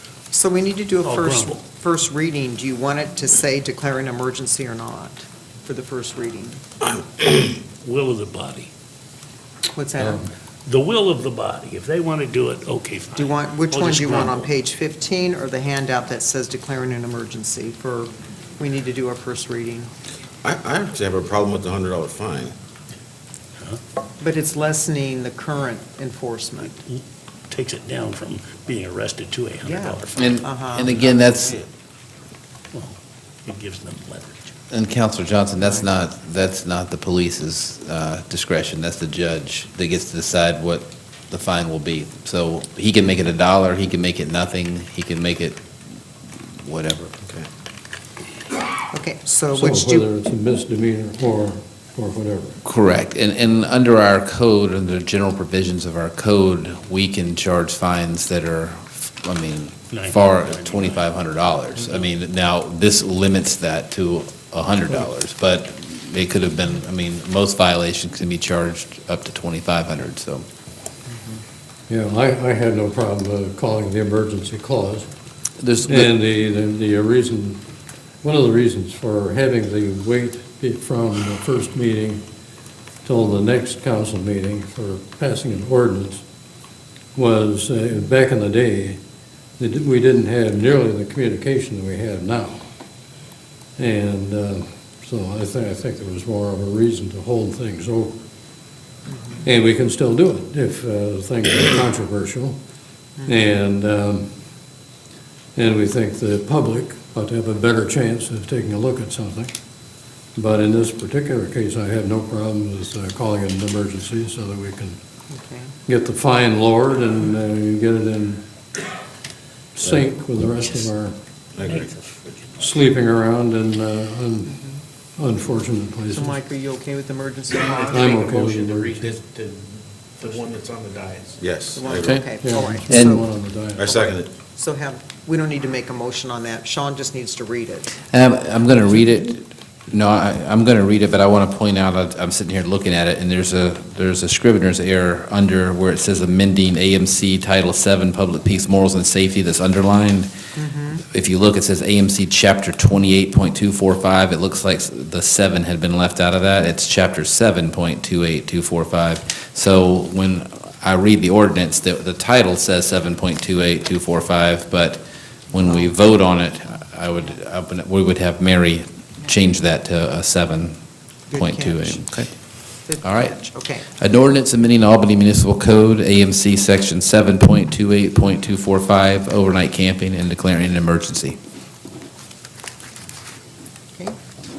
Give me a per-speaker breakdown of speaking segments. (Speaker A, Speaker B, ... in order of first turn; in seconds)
Speaker A: 0.3-6.6, 9.6-10.2, 13.1-19.9, 24.2-26.8, 29.6-30.9, 35.6-36.0, 48.9-50.1, 99.1-99.4, 115.3-115.7, 124.5-124.8, 126.1-128.2, 131.7-133.3, 133.8-137.9, 150.5-151.0, 165.6-165.9, 171.3-172.0, 172.8-173.8
Speaker B: 1.0-1.6, 7.6-8.7, 10.7-14.5, 26.7-30.4, 33.5-34.5, 59.9-61.0, 121.6-122.7
Speaker C: 10.0-10.3, 49.5-52.6, 71.9-75.1, 75.8-77.6, 78.2-82.2, 83.0-86.2, 87.2-89.0, 89.6-92.6, 93.8-98.2, 99.4-102.6, 103.2-104.3, 105.5-109.5, 110.3-115.0, 115.9-118.4, 119.7-121.2, 122.6-124.6, 125.2-126.4, 127.9-129.2, 132.3-133.9
Speaker D: 20.4-22.5, 30.9-31.7, 121.5-121.9, 131.4-132.3, 133.8-134.3
Speaker E: 30.1-31.6, 34.7-45.6, 46.6-47.1, 52.6-70.4, 75.6-76.1, 132.0-132.2, 132.9-133.2, 138.1-150.3, 151.0-170.7, 171.3-172.3, 173.0-173.4, 173.9-181.4
Speaker F: 127.6-129.6, 130.2-131.4